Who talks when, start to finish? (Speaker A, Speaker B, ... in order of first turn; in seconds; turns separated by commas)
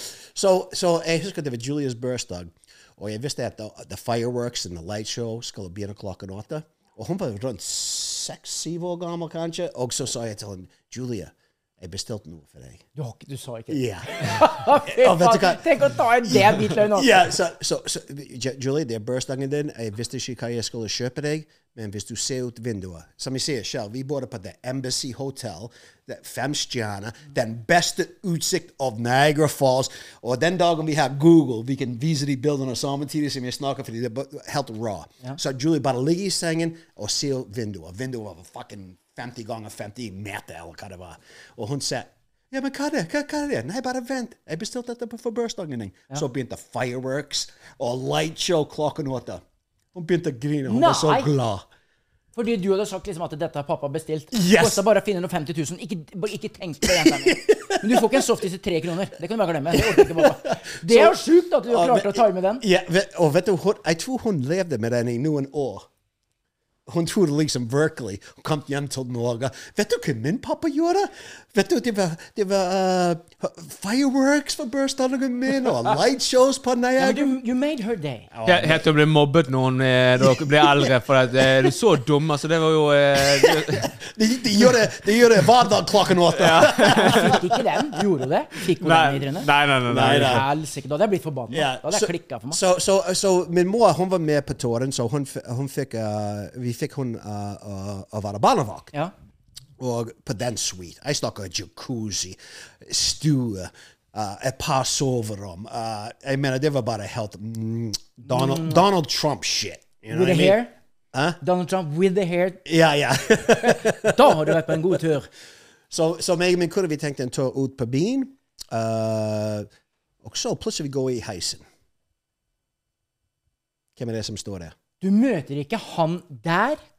Speaker A: 0.3-12.8, Speaker B: 13.0-17.2, Speaker A: 13.7-49.4, Speaker A: 49.9-51.7, Speaker B: 50.7-51.3, Speaker B: 52.4-62.6, Speaker A: 54.3-54.8, Speaker A: 56.9-58.2, Speaker A: 59.7-65.9, Speaker A: 66.9-77.4, Speaker B: 77.0-78.3, Speaker A: 78.3-78.9, Speaker C: 78.5-83.9, Speaker A: 80.2-80.9, Speaker A: 83.2-87.5, Speaker C: 86.3-87.1, Speaker B: 86.8-89.5, Speaker C: 88.8-90.5, Speaker A: 89.9-90.5, Speaker B: 90.1-92.6, Speaker A: 91.5-98.9, Speaker A: 99.8-110.6, Speaker B: 108.2-108.8, Speaker B: 110.1-110.7, Speaker A: 111.1-111.4, Speaker B: 111.4-112.6, Speaker A: 112.7-115.0, Speaker B: 113.6-115.3, Speaker A: 115.9-119.7, Speaker A: 120.2-121.7, Speaker A: 124.0-124.7, Speaker B: 125.0-126.8